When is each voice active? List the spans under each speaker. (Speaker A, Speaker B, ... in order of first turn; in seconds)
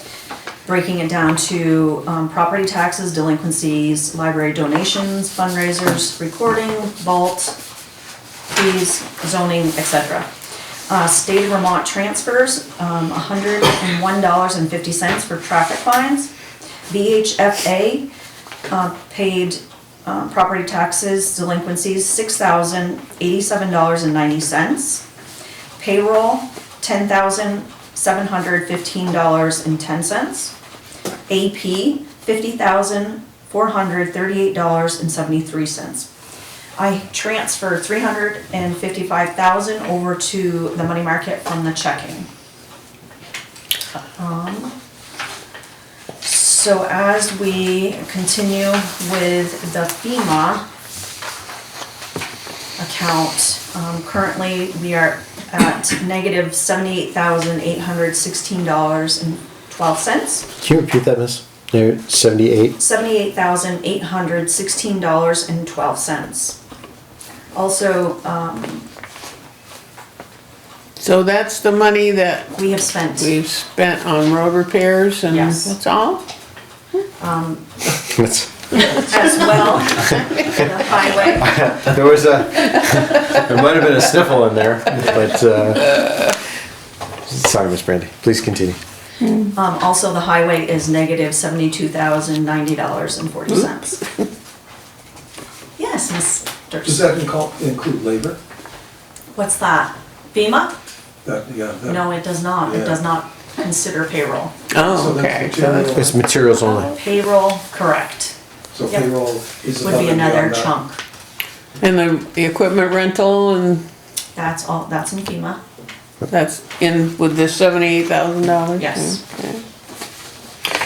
Speaker A: 0.6-7.6, 8.5-10.3, 10.9-16.3, 16.9-18.1, 18.7-25.1, 25.8-30.5, 31.3-36.1, 36.8-42.3, 44.2-44.7, 46.2-50.6, 52.8-60.5, 62.8-66.6, 67.5-68.9, 72.6-73.3, 75.3-75.8, 77.2-77.7, 78.8-81.6, 89.5-94.0, 95.8-97.1, 99.3-100.8, 101.8-104.5, 106.8-108.3, 109.8-111.0, 114.3-115.6, 118.8-119.2
Speaker B: 60.6-62.8, 77.9-80.5, 81.2-86.0, 87.3-88.8, 105.9-106.9
Speaker C: 71.0-76.2, 89.2-89.5, 104.7-106.1, 111.8-113.8, 116.3-119.6
Speaker D: 96.8-98.4, 101.2-102.0, 102.6-103.0, 104.9-106.1, 108.7-110.7